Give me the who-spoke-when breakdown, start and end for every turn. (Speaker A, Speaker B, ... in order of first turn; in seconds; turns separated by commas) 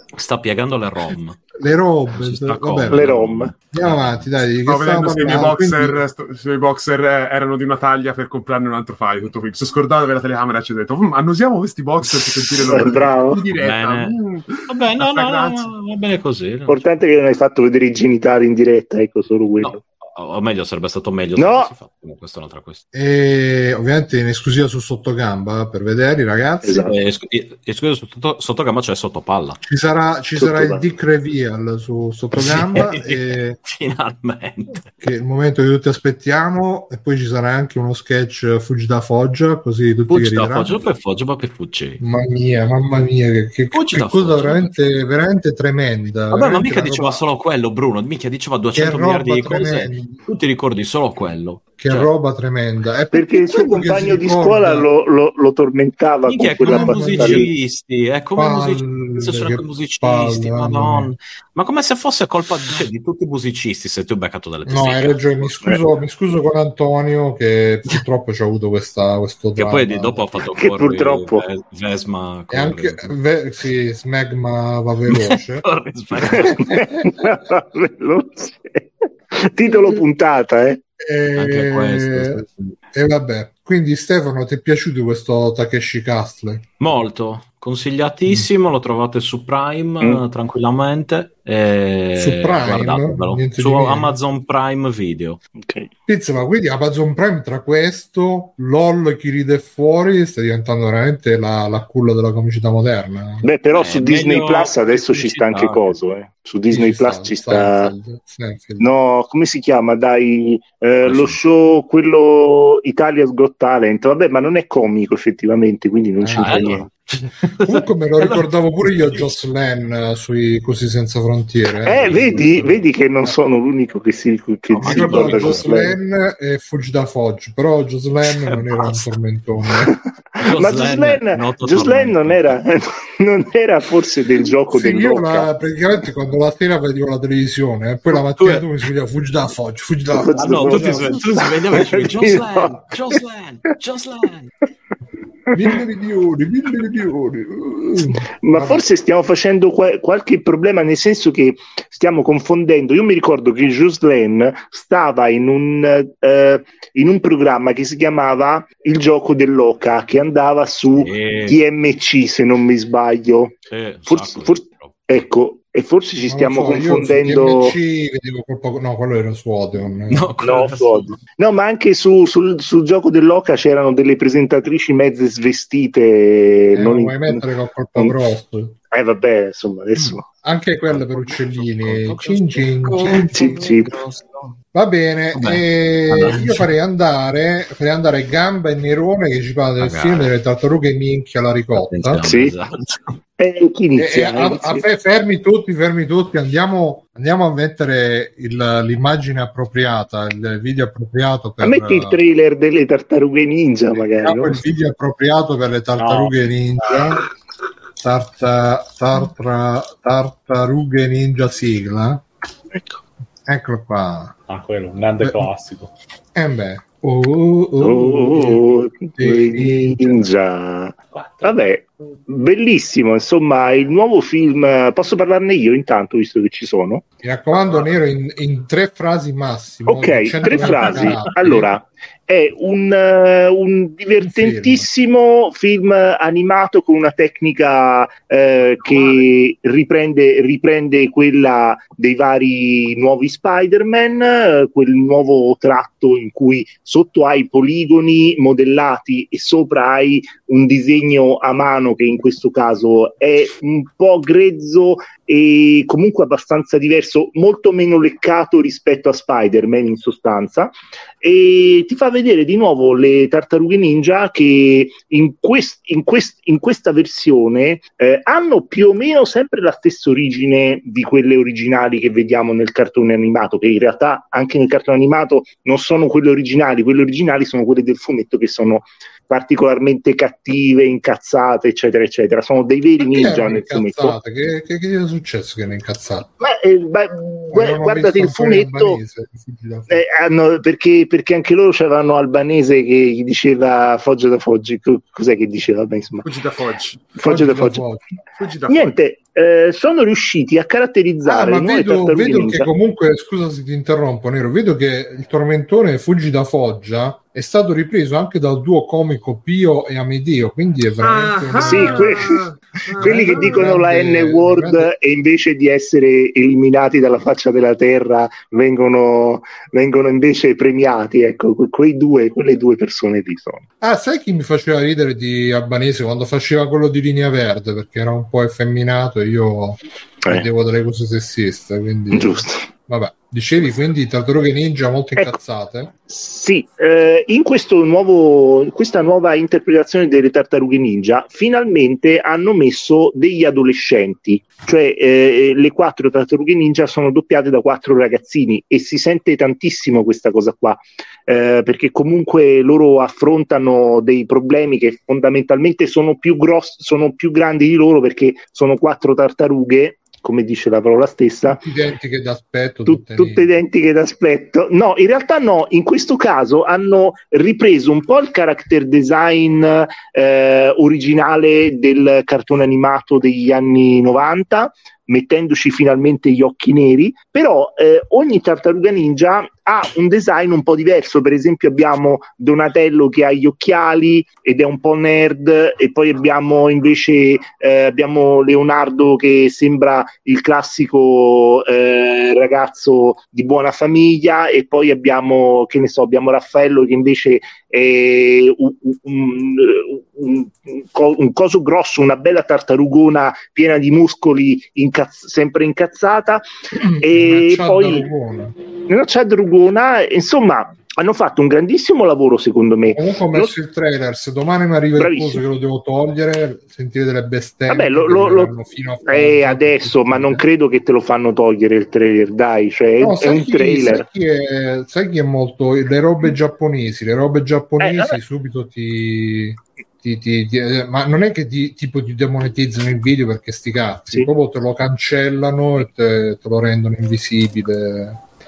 Speaker A: 0.1-1.4, Speaker B: 1.6-3.1, Speaker A: 2.1-3.9, Speaker C: 2.9-3.5, Speaker B: 3.7-6.0, Speaker D: 4.7-15.7, Speaker A: 12.1-12.8, Speaker C: 12.7-13.4, Speaker A: 13.6-14.2, Speaker A: 14.7-16.8, Speaker C: 16.7-19.7, Speaker A: 19.6-22.8, Speaker C: 21.4-21.7, Speaker B: 22.9-26.9, Speaker C: 26.6-26.9, Speaker A: 26.7-29.6, Speaker B: 29.6-33.6, Speaker C: 30.4-30.9, Speaker A: 32.3-34.9, Speaker B: 35.0-40.8, Speaker A: 40.1-42.0, Speaker B: 42.0-47.2, Speaker A: 43.7-44.8, Speaker A: 46.3-52.1, Speaker B: 48.7-50.2, Speaker B: 51.8-54.9, Speaker C: 53.1-57.5, Speaker A: 56.2-65.2, Speaker B: 56.6-57.5, Speaker B: 58.4-61.1, Speaker B: 64.7-70.4, Speaker A: 69.6-73.1, Speaker C: 70.6-71.4, Speaker B: 72.5-75.7, Speaker A: 75.1-76.5, Speaker C: 76.3-80.8, Speaker B: 81.0-86.6, Speaker A: 81.3-82.8, Speaker A: 86.8-95.4, Speaker B: 92.1-94.1, Speaker C: 95.6-95.9, Speaker B: 96.1-103.5, Speaker C: 103.4-107.9, Speaker A: 103.7-106.0, Speaker B: 106.7-108.9, Speaker C: 108.8-116.9, Speaker A: 111.0-111.4, Speaker B: 116.2-116.9, Speaker A: 116.4-119.3, Speaker B: 117.6-122.7, Speaker C: 121.8-126.0, Speaker A: 121.9-122.8, Speaker A: 124.7-125.7, Speaker B: 124.8-129.9, Speaker A: 128.2-129.1, Speaker C: 129.9-135.5, Speaker A: 130.4-132.6, Speaker B: 134.7-141.2, Speaker A: 138.1-138.7, Speaker C: 140.1-142.9, Speaker A: 140.3-144.5, Speaker B: 145.5-148.8, Speaker C: 148.4-163.5, Speaker A: 161.0-161.6, Speaker A: 163.7-165.0, Speaker C: 164.1-167.8, Speaker B: 166.3-170.6, Speaker A: 170.1-171.2, Speaker C: 170.4-178.2, Speaker B: 176.7-178.8, Speaker C: 178.9-180.2, Speaker B: 180.4-183.6, Speaker A: 180.9-184.5, Speaker C: 183.3-183.9, Speaker B: 184.6-192.2, Speaker A: 185.3-186.7, Speaker A: 189.8-190.3, Speaker A: 191.9-192.8, Speaker C: 192.2-192.6, Speaker C: 193.4-194.8, Speaker B: 194.0-202.2, Speaker C: 201.6-204.6, Speaker B: 204.2-207.3, Speaker E: 206.0-206.4, Speaker B: 208.0-212.2, Speaker C: 212.7-213.0, Speaker B: 213.5-214.3, Speaker E: 214.5-215.9, Speaker B: 215.2-215.5, Speaker B: 216.3-218.6, Speaker C: 217.8-227.0, Speaker B: 219.2-220.3, Speaker E: 221.1-221.6, Speaker B: 227.2-231.7, Speaker E: 227.7-227.9, Speaker C: 229.9-284.1, Speaker E: 230.6-231.3, Speaker B: 234.2-234.9, Speaker B: 283.0-286.3, Speaker C: 286.4-289.0, Speaker B: 287.5-290.0, Speaker C: 289.9-296.2, Speaker D: 296.2-297.1, Speaker C: 297.2-297.9, Speaker B: 297.2-298.1, Speaker D: 298.4-298.9, Speaker C: 298.7-302.7, Speaker B: 301.2-312.2, Speaker D: 311.0-313.7, Speaker C: 311.6-312.4, Speaker B: 313.0-314.9, Speaker C: 313.0-323.6, Speaker B: 323.8-335.9, Speaker C: 332.1-332.6, Speaker C: 336.1-361.6, Speaker B: 361.6-363.5, Speaker C: 362.9-406.4, Speaker B: 406.8-408.5, Speaker C: 407.0-408.1, Speaker C: 408.9-413.5, Speaker B: 412.9-420.4, Speaker C: 415.0-415.4, Speaker C: 417.7-418.5, Speaker C: 419.1-424.0, Speaker B: 423.0-438.2, Speaker C: 427.8-428.2